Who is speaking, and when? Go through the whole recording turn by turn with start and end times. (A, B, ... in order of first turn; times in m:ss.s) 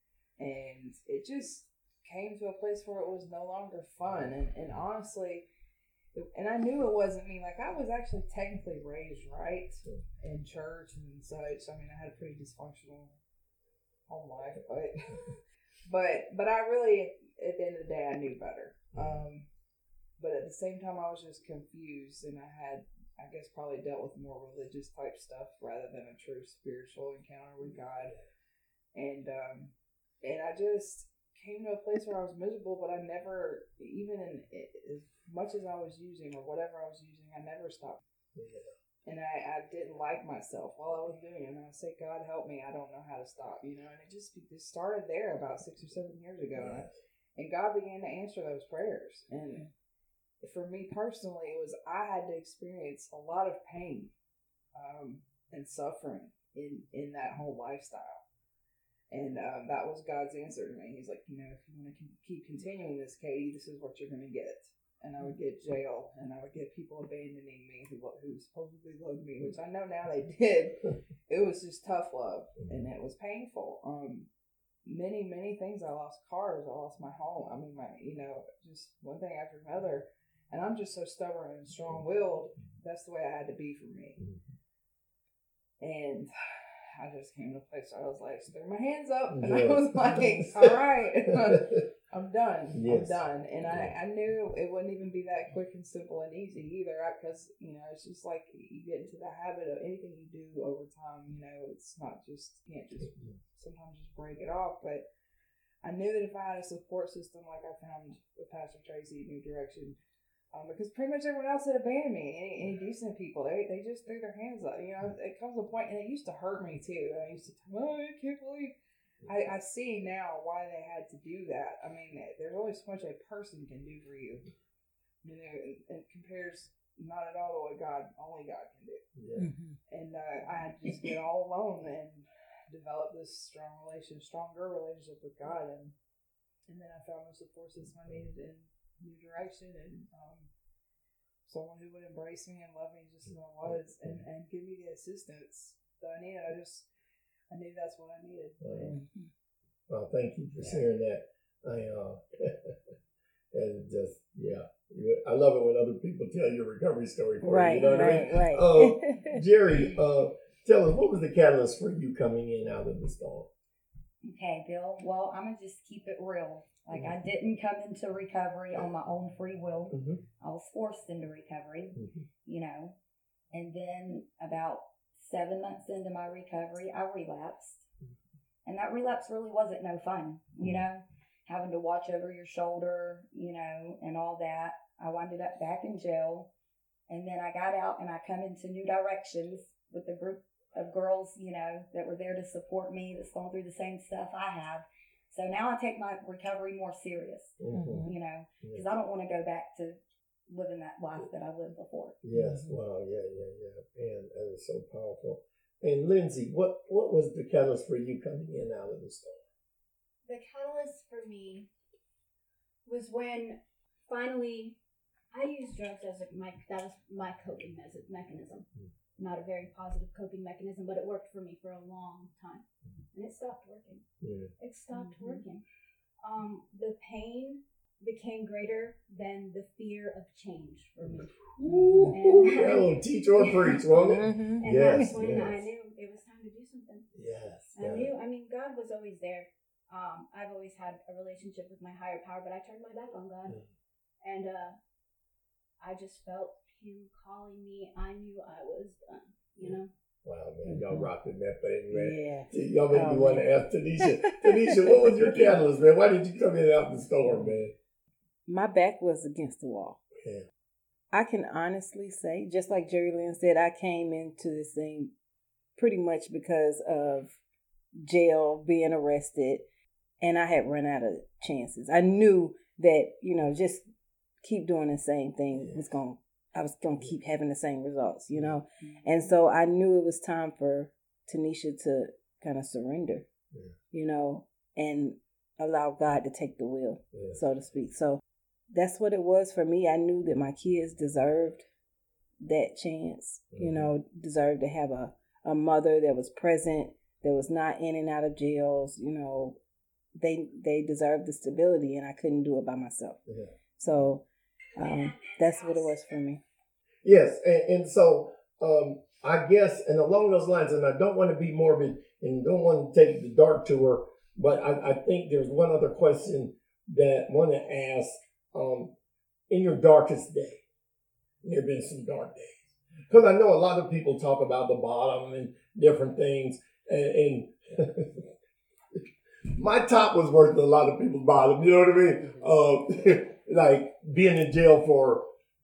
0:00.4-0:05.5 A
0:06.1-0:13.2 A
0:14.1-0:19.5 A
0:18.9-0:19.2 B
0:20.2-0:28.2 A
0:29.0-0:38.0 A
0:38.4-0:38.7 B
0:39.0-0:49.7 A
0:46.6-0:46.9 B
0:50.4-0:54.1 A
0:54.8-0:58.2 A
0:59.1-1:14.3 A
1:14.8-1:24.2 A
1:24.2-1:24.5 B
1:25.8-1:45.0 A
1:29.3-1:31.6 B
1:32.7-1:33.9 B
1:43.0-1:43.4 B
1:45.8-1:50.0 A
1:50.5-1:58.7 A
1:59.2-2:04.5 A
2:05.2-2:09.0 A
2:09.2-2:09.5 B
2:09.4-2:09.8 C
2:09.9-2:15.9 A
2:16.7-2:20.5 A
2:21.4-2:26.9 A
2:23.6-2:24.2 B
2:27.5-2:29.0 A
2:28.6-2:29.0 B
2:28.9-2:29.3 C
2:29.9-2:32.7 B
2:33.5-2:43.5 B
2:37.4-2:39.4 C
2:44.2-2:53.0 D
2:49.9-2:50.2 B
2:52.0-2:52.3 B
2:53.5-2:57.8 D
2:58.6-3:06.5 D
3:07.1-3:22.2 D
3:17.6-3:18.9 B
3:17.7-3:18.2 C
3:22.2-3:29.4 B
3:22.3-3:22.8 C
3:30.3-3:31.7 E
3:32.9-3:34.8 E
3:35.3-3:44.0 E
3:44.2-3:44.5 B
3:44.6-3:45.6 E
3:44.9-3:45.4 C
3:46.2-3:51.3 E
3:51.0-3:55.7 B
3:51.6-3:52.2 C
3:52.1-3:53.9 E
3:54.0-3:55.2 C
3:54.6-3:57.1 E
3:57.1-3:58.1 B
3:57.7-4:03.6 E
4:04.2-4:04.8 E
4:05.8-4:09.9 E
4:09.6-4:17.7 B
4:10.6-4:11.1 C
4:11.9-4:13.5 C
4:14.0-4:15.5 C
4:17.2-4:17.6 C
4:18.5-4:20.0 C
4:20.2-4:20.5 B
4:21.1-4:25.1 C
4:25.8-4:27.4 C
4:28.0-4:29.6 C
4:30.2-4:33.8 C
4:34.4-4:43.3 C
4:35.5-4:35.9 B
4:38.3-4:38.6 B
4:43.9-4:51.7 C
4:47.1-4:47.4 B
4:52.4-4:59.6 C
4:53.5-4:53.9 B
5:00.2-5:03.2 C
5:03.3-5:03.6 B
5:03.8-5:04.2 C
5:04.8-5:06.4 C
5:07.0-5:18.9 B
5:19.5-5:20.6 B
5:21.4-5:28.3 B
5:28.9-5:35.2 B